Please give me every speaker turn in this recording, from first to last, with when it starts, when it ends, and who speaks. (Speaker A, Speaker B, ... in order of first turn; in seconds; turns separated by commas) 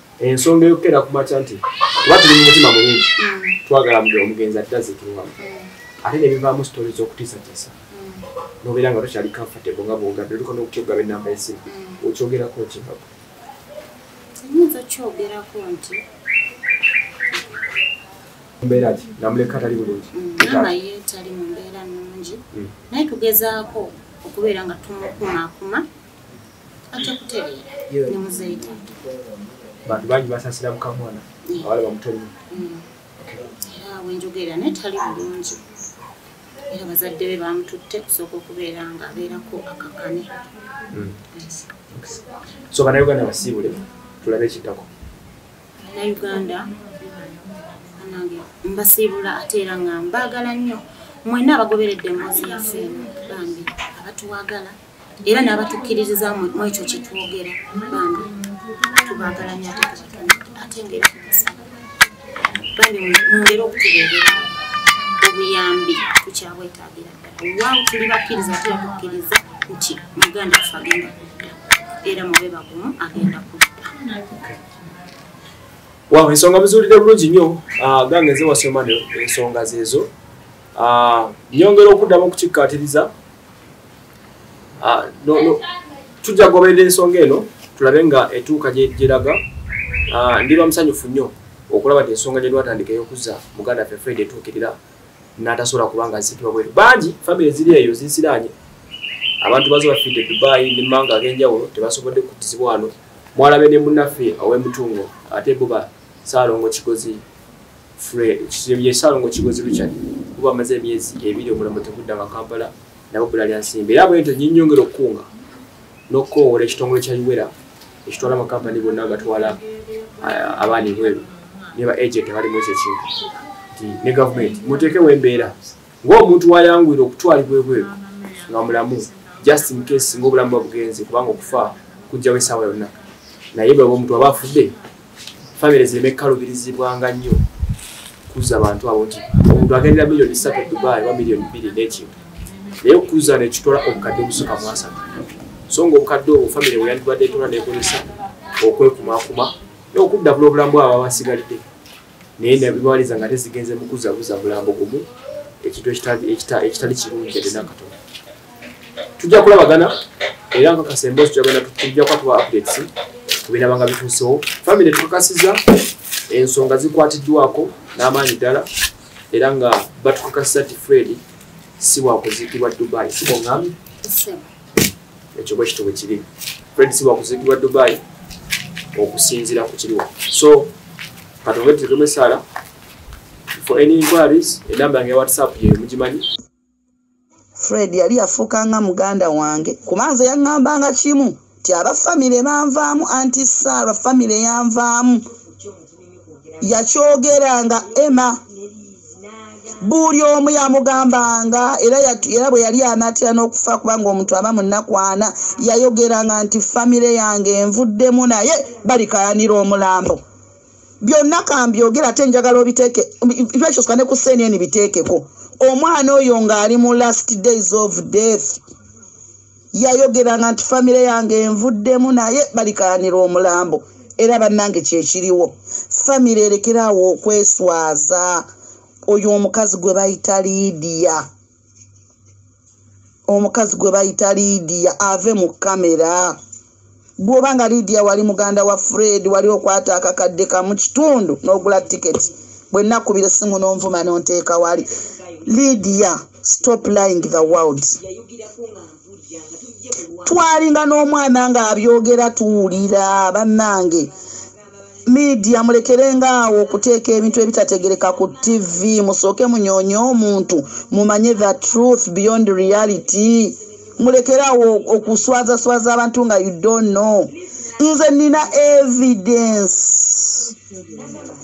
Speaker A: 0.2-3.1, Speaker B: 3.2-3.6, Speaker A: 3.7-5.4, Speaker B: 5.4-5.7, Speaker A: 6.0-7.7, Speaker B: 7.9-8.3, Speaker A: 8.6-13.1, Speaker B: 11.7-12.0, Speaker B: 14.3-16.0, Speaker B: 17.3-17.6, Speaker A: 18.6-20.7, Speaker B: 20.1-25.9, Speaker B: 26.9-28.8, Speaker A: 29.9-32.3, Speaker B: 31.5-31.7, Speaker B: 32.5-32.9, Speaker B: 33.6-35.6, Speaker B: 36.7-40.3, Speaker A: 40.9-41.2, Speaker B: 41.3-41.7, Speaker A: 41.9-44.9, Speaker B: 45.8-46.8, Speaker B: 48.0-58.3, Speaker B: 59.0-61.7, Speaker B: 62.7-64.6, Speaker B: 65.2-74.0, Speaker A: 76.1-80.1, Speaker A: 80.8-83.1, Speaker A: 84.8-85.6, Speaker A: 86.2-89.4, Speaker A: 90.1-94.8, Speaker A: 95.4-98.5, Speaker A: 99.4-107.2, Speaker A: 108.0-115.3, Speaker A: 116.1-117.5, Speaker A: 118.0-119.6, Speaker A: 120.2-123.1, Speaker A: 123.7-127.9, Speaker A: 128.5-133.0, Speaker A: 133.5-134.8, Speaker A: 135.6-137.4, Speaker A: 138.3-142.2, Speaker A: 142.8-145.1, Speaker A: 145.7-148.1, Speaker A: 148.6-151.6, Speaker A: 152.4-155.1, Speaker A: 155.6-157.9, Speaker A: 159.2-159.9, Speaker A: 160.5-162.9, Speaker A: 163.5-165.6, Speaker A: 166.3-168.7, Speaker A: 169.3-171.2, Speaker A: 171.8-173.8, Speaker B: 174.0-174.5, Speaker A: 175.3-176.2, Speaker A: 176.8-178.0, Speaker A: 178.9-180.7, Speaker A: 181.4-182.4, Speaker A: 183.5-186.3, Speaker C: 187.6-195.3, Speaker C: 196.6-198.4, Speaker C: 199.8-210.2, Speaker C: 211.0-218.6, Speaker C: 219.7-228.5, Speaker C: 229.1-231.2, Speaker C: 233.3-236.4, Speaker C: 237.2-244.9, Speaker C: 245.4-248.1, Speaker C: 250.2-254.1, Speaker C: 255.1-270.5